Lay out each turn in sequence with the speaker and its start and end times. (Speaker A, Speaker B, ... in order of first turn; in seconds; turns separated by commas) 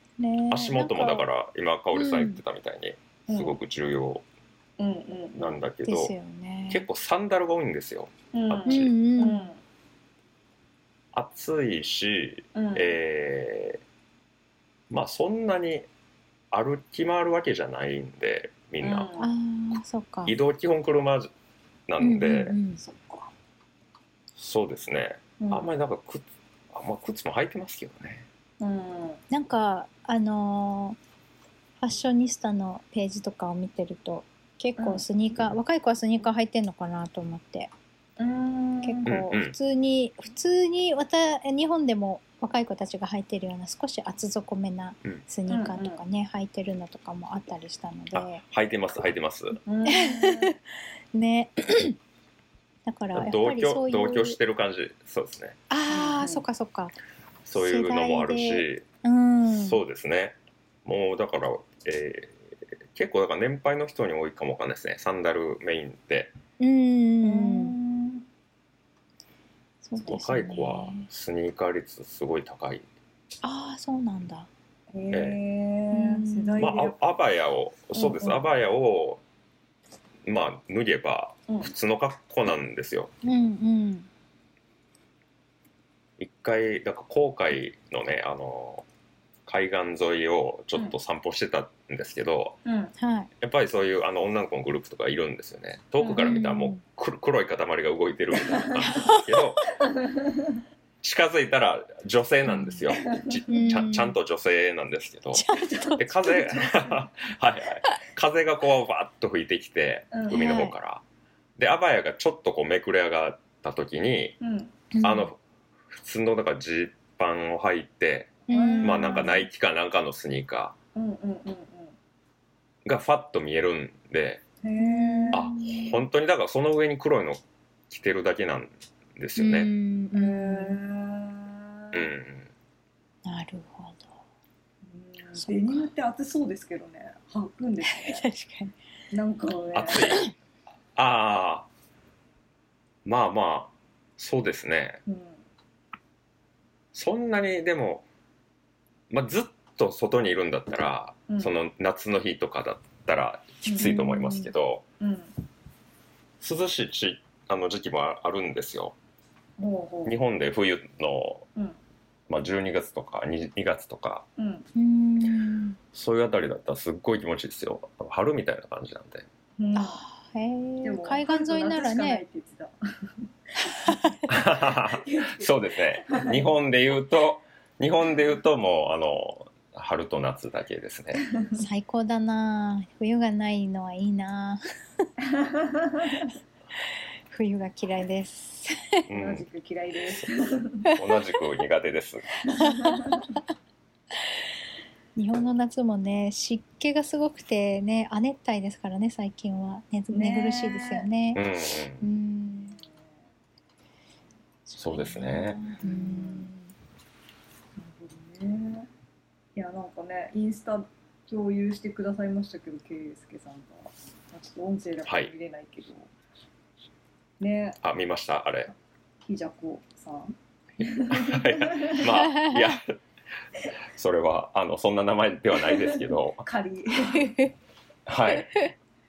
Speaker A: 0.2-1.3, Speaker B: 0.5-4.2, Speaker A: 1.9-2.4, Speaker C: 3.3-3.5, Speaker C: 4.8-5.6, Speaker B: 5.3-6.1, Speaker A: 5.8-6.8, Speaker B: 6.7-8.9, Speaker C: 8.3-9.6, Speaker A: 8.7-9.5, Speaker B: 11.1-13.8, Speaker C: 12.5-12.9, Speaker B: 14.9-15.9, Speaker B: 16.5-19.1, Speaker C: 18.8-19.3, Speaker A: 19.2-20.3, Speaker B: 20.2-21.3, Speaker B: 21.9-22.6, Speaker A: 22.0-22.8, Speaker C: 22.8-23.3, Speaker B: 24.4-28.3, Speaker C: 25.4-25.7, Speaker C: 28.6-29.2, Speaker A: 29.3-31.0, Speaker A: 31.8-37.7, Speaker C: 34.8-35.0, Speaker C: 38.2-39.1, Speaker A: 38.8-48.4, Speaker B: 39.0-39.5, Speaker C: 45.5-46.0, Speaker B: 48.1-49.6, Speaker C: 49.6-50.5, Speaker A: 49.9-50.5, Speaker A: 51.1-52.0, Speaker A: 52.9-54.4, Speaker B: 53.1-55.6, Speaker A: 55.7-56.9, Speaker C: 55.9-56.4, Speaker B: 57.4-58.8, Speaker A: 57.5-59.8, Speaker B: 59.6-66.3, Speaker A: 66.6-67.7, Speaker C: 67.2-68.2, Speaker A: 69.8-71.1, Speaker B: 70.0-72.8, Speaker A: 73.4-74.5, Speaker C: 74.9-77.1, Speaker B: 75.1-75.4, Speaker A: 75.9-76.7, Speaker B: 76.6-79.2, Speaker C: 78.0-78.4, Speaker B: 80.2-83.1, Speaker A: 83.2-84.1, Speaker B: 86.2-88.8, Speaker B: 89.5-92.6, Speaker C: 92.6-92.9, Speaker A: 93.0-93.3, Speaker B: 93.4-99.7, Speaker C: 96.0-96.3, Speaker A: 96.1-96.8, Speaker C: 98.4-98.9, Speaker A: 98.9-99.2, Speaker C: 99.8-100.6, Speaker B: 101.0-111.0, Speaker A: 102.5-102.8, Speaker C: 102.9-103.4, Speaker A: 103.5-104.2, Speaker A: 105.3-106.0, Speaker C: 105.6-107.1, Speaker C: 110.1-110.5, Speaker A: 110.3-110.7, Speaker B: 111.6-114.4, Speaker C: 114.4-114.8, Speaker A: 114.9-115.3, Speaker B: 115.0-115.4, Speaker B: 115.9-120.7, Speaker C: 118.5-119.4, Speaker A: 118.5-119.4, Speaker C: 120.9-121.9, Speaker B: 122.8-124.4, Speaker C: 124.6-125.5, Speaker A: 124.8-126.0, Speaker B: 125.3-129.7, Speaker A: 129.3-130.8, Speaker C: 130.1-132.1, Speaker B: 131.9-132.5, Speaker A: 133.2-134.1, Speaker C: 134.8-138.2, Speaker A: 135.3-135.9, Speaker A: 137.8-138.7, Speaker C: 139.1-140.1, Speaker B: 139.7-140.2, Speaker A: 140.1-140.3, Speaker B: 140.9-141.7, Speaker B: 143.0-145.0, Speaker C: 145.1-145.4, Speaker B: 146.9-148.1, Speaker B: 149.1-154.8, Speaker C: 153.7-155.3, Speaker A: 153.8-154.2, Speaker B: 156.4-158.9, Speaker C: 159.6-160.2, Speaker B: 160.0-161.5, Speaker B: 162.3-164.2, Speaker C: 164.4-164.7, Speaker A: 164.7-165.8, Speaker B: 165.9-169.3, Speaker C: 169.6-170.0, Speaker A: 169.7-172.2, Speaker C: 170.8-176.5, Speaker A: 173.6-174.2, Speaker B: 174.3-181.2, Speaker C: 181.2-181.6, Speaker A: 181.5-184.6, Speaker C: 185.3-186.3, Speaker A: 187.3-189.1, Speaker B: 189.1-189.4, Speaker C: 189.1-190.9, Speaker B: 190.9-192.3, Speaker C: 192.4-193.2, Speaker A: 192.6-193.4, Speaker A: 195.2-201.5, Speaker C: 200.1-201.1, Speaker B: 201.3-202.0, Speaker A: 202.0-202.8, Speaker C: 202.7-203.2, Speaker A: 204.7-206.7, Speaker B: 204.8-205.6, Speaker C: 205.8-206.5, Speaker C: 207.8-208.9, Speaker C: 209.6-216.1, Speaker B: 215.1-215.3, Speaker C: 217.4-217.8, Speaker B: 217.8-218.7, Speaker C: 219.2-222.1, Speaker B: 221.1-222.9, Speaker A: 222.0-222.8, Speaker B: 223.9-226.4, Speaker C: 225.6-227.3, Speaker A: 227.1-227.5, Speaker B: 228.1-228.7